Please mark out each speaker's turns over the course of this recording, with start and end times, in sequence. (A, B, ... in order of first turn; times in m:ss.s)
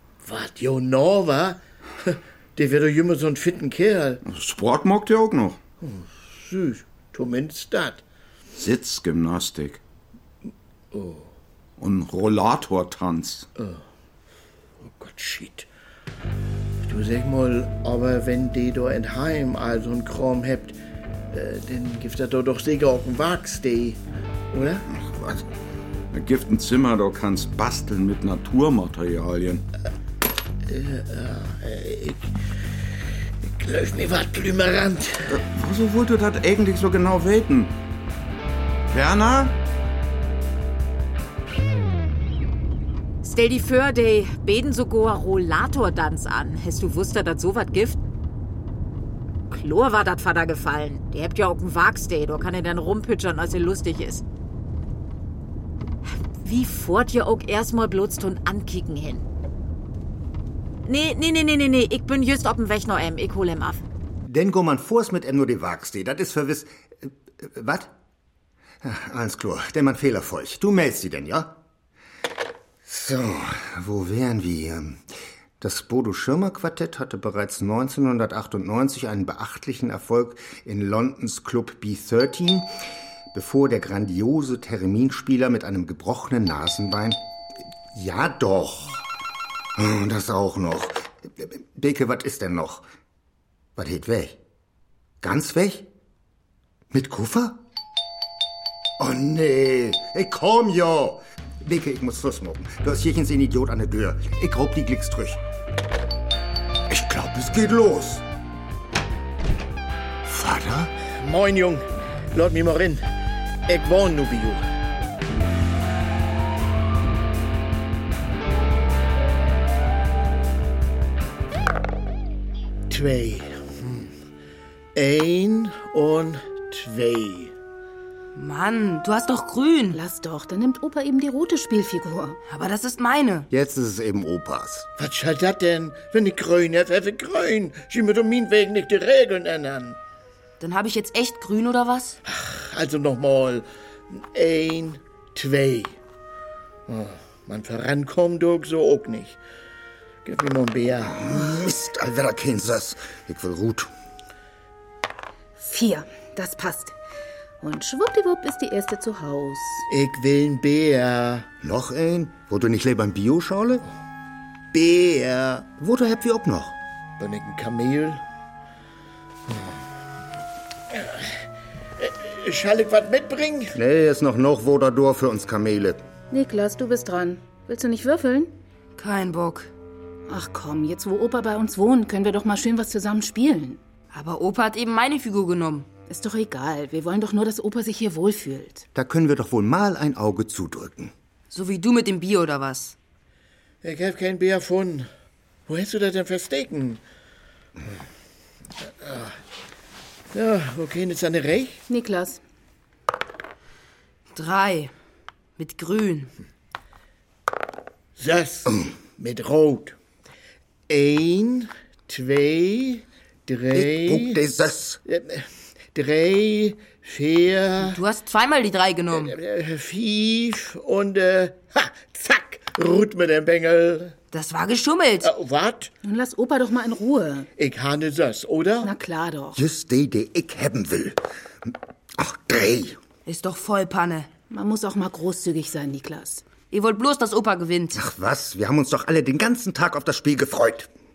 0:00.2-0:04.2 A
0:04.2-0:05.6 B
0:05.8-0:08.0 A
0:08.6-0:09.8 B
0:10.9-0:11.3 A
0:11.8-0:13.5 B
0:14.8-0:15.7 A
0:16.8-0:20.8 A
0:21.3-0:24.0 A
0:24.5-0:24.9 A
0:24.9-0:25.5 B
0:26.1-0:29.6 B
0:30.7-0:32.3 A
0:33.5-0:35.4 A
0:35.3-0:37.7 B
0:38.9-0:39.6 B
0:43.2-0:48.0 C
0:49.5-0:54.2 C
0:56.4-0:59.2 C
1:00.8-1:03.8 C
1:04.2-1:07.9 D
1:08.8-1:11.6 D
1:12.8-1:15.0 D
1:15.6-1:22.7 D
1:23.3-1:27.2 D
1:27.9-1:29.1 D
1:29.8-1:32.9 D
1:33.8-1:34.4 D
1:35.2-1:35.9 D
1:36.9-1:37.6 D
1:39.0-1:45.4 D
1:46.9-1:48.2 D
1:50.2-1:50.9 D
1:51.2-1:53.0 A
1:53.7-1:54.6 A
2:02.9-2:04.1 A
2:05.0-2:07.5 A
2:08.4-2:10.0 E
2:09.9-2:12.4 F
2:12.5-2:13.5 E
2:13.5-2:14.9 D
2:15.0-2:20.0 A
2:20.6-2:22.2 E
2:22.3-2:25.9 A
2:26.9-2:29.4 A
2:30.2-2:31.3 A
2:31.0-2:33.9 D
2:35.6-2:37.0 F
2:37.6-2:39.9 F
2:39.9-2:41.5 A
2:41.6-2:43.9 D
2:44.7-2:45.7 A
2:45.8-2:46.8 D
2:47.2-2:48.2 A
2:50.9-2:51.2 A
2:52.0-2:53.8 A
2:53.7-2:56.0 D
2:56.3-2:58.5 F
2:59.0-2:59.7 E
3:00.3-3:03.8 F
3:04.1-3:05.9 E
3:06.1-3:08.9 F
3:09.0-3:11.1 D
3:11.5-3:13.0 E
3:13.8-3:15.1 A
3:15.7-3:17.0 A
3:18.9-3:19.4 A
3:20.3-3:21.8 A
3:21.9-3:22.4 F
3:24.3-3:24.9 E
3:25.6-3:26.3 E
3:28.2-3:30.0 A
3:30.9-3:34.4 A
3:33.7-3:35.0 D
3:35.1-3:38.0 A
3:37.8-3:39.4 E
3:39.1-3:44.1 A
3:44.3-3:45.3 E
3:45.2-3:45.9 A
3:46.0-3:47.5 F
3:47.6-3:48.9 A
3:48.8-3:49.6 F
3:49.6-3:53.0 D
3:53.3-3:54.3 E
3:54.5-3:56.5 F
3:56.7-3:58.0 E
3:57.9-4:00.9 D